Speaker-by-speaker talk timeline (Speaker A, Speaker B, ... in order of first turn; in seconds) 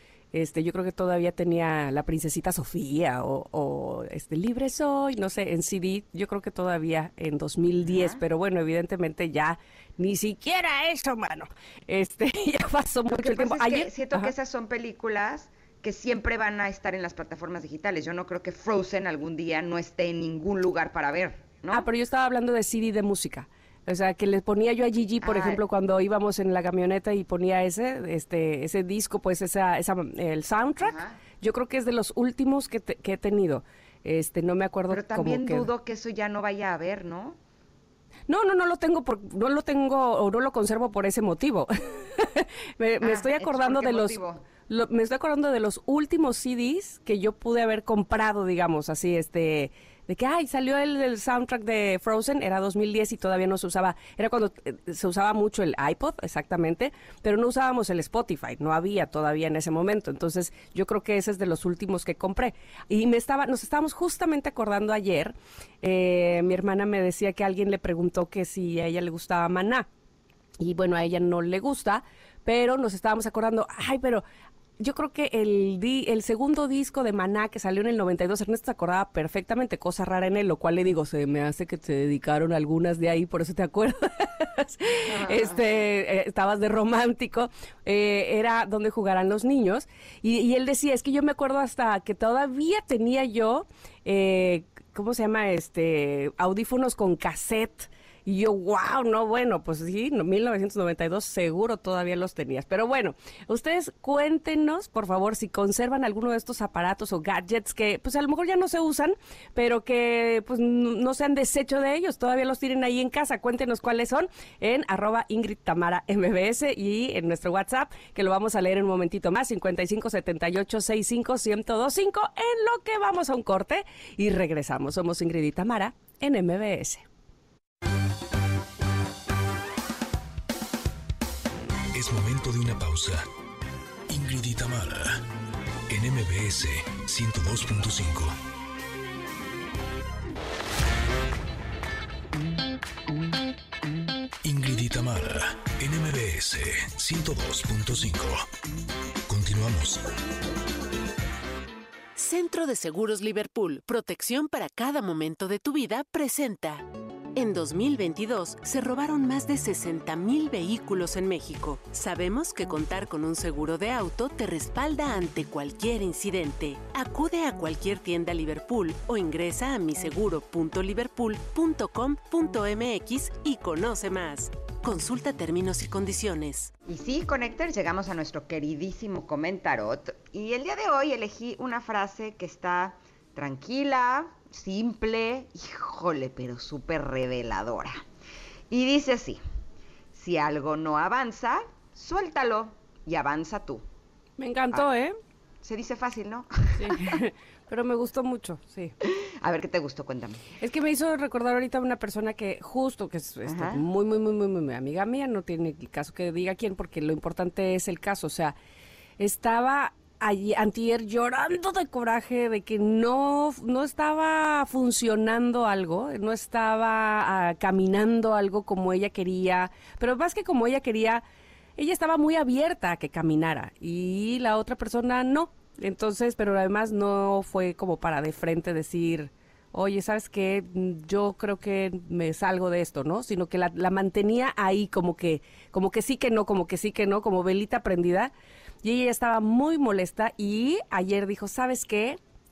Speaker A: 0.3-14.3, 21.7-35.7, 38.3-69.9, 70.6-74.2, 74.8-127.1, 194.4-195.2, 196.8-199.0, 200.6-208.6, 209.2-221.2, 221.8-238.3, 238.8-242.2
Speaker B: 7.8-8.2, 13.1-21.9, 25.2-25.6, 30.8-31.2, 34.9-37.4, 43.0-44.5, 85.1-85.6, 176.9-188.0, 188.7-189.4, 190.1-193.8, 195.6-197.1, 199.4-200.4, 203.4-203.8
Speaker C: 131.9-133.3, 134.1-135.2, 135.9-138.4, 144.4-148.5, 149.3-150.0
Speaker D: 152.2-176.7